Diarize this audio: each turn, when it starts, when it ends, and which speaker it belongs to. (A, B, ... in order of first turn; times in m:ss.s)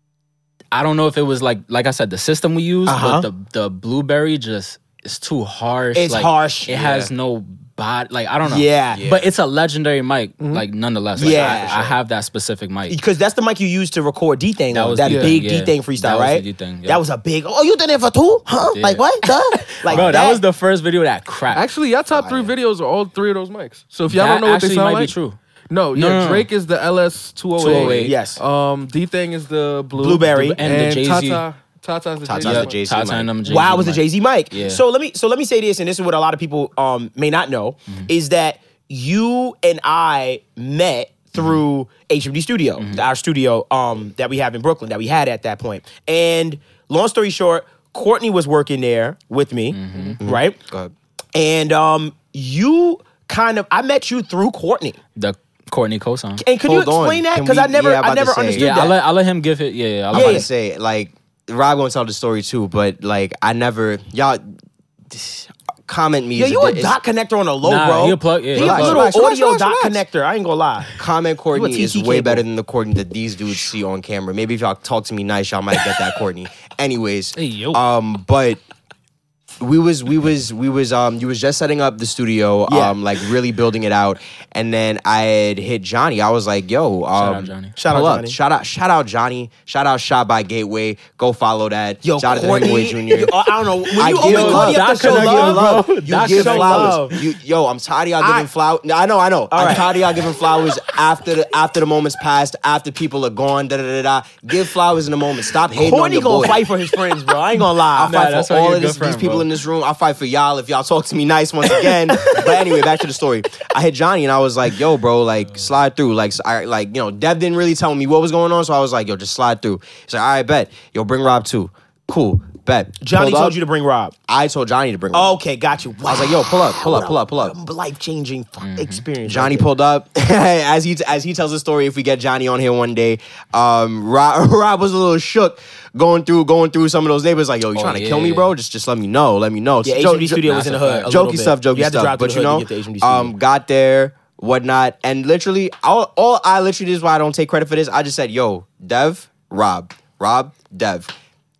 0:00.7-0:13.0 A
0:02.8-0:03.3 B
0:05.9-0:06.7 B
0:06.7-0:07.1 C
0:08.4-0:09.1 B
0:08.9-0:09.3 C
0:11.2-0:11.9 C
0:11.2-0:11.8 B
0:12.9-0:20.4 B
0:14.7-0:17.0 A
0:15.0-0:15.4 D
0:18.7-0:21.7 A
0:21.5-0:25.1 D
0:22.1-0:22.5 C
0:24.0-0:25.4 A
0:25.7-0:32.8 D
0:25.9-0:26.5 A
0:27.6-0:28.1 A
0:27.6-0:28.4 B
0:30.0-0:30.6 B
0:30.3-0:31.4 A
0:32.2-0:33.3 C
0:32.4-0:34.8 A
0:33.4-0:50.6 B
0:42.8-0:43.0 A
0:49.7-0:50.2 A
0:50.2-0:50.9 C
0:51.3-0:55.0 B
0:55.2-0:56.4 A
0:56.4-0:58.9 B
0:56.6-0:58.7 C
0:58.5-1:00.5 A
1:00.1-1:04.4 C
1:00.1-1:00.4 B
1:05.1-1:07.0 C
1:06.4-1:11.0 B
1:07.6-1:09.1 A
1:08.5-1:10.0 C
1:11.0-1:18.6 C
1:11.5-1:12.4 B
1:17.4-1:17.8 A
1:19.6-1:33.4 C
1:22.7-1:23.0 B
1:27.1-1:27.8 A
1:27.8-1:28.4 B
1:32.0-1:37.2 B
1:34.0-1:46.6 C
1:34.0-1:37.2 A
1:38.2-1:38.5 B
1:39.5-1:39.9 B
1:45.7-1:48.2 B
1:47.9-2:03.6 C
1:48.0-1:49.5 A
1:51.9-1:52.8 B
2:03.0-2:04.1 B
2:04.3-2:05.4 C
2:05.1-2:09.7 B
2:06.0-2:07.5 C
2:08.6-2:09.0 A
2:09.2-2:31.1 C
2:17.7-2:18.5 A
2:19.8-2:23.3 B
2:20.5-2:21.1 A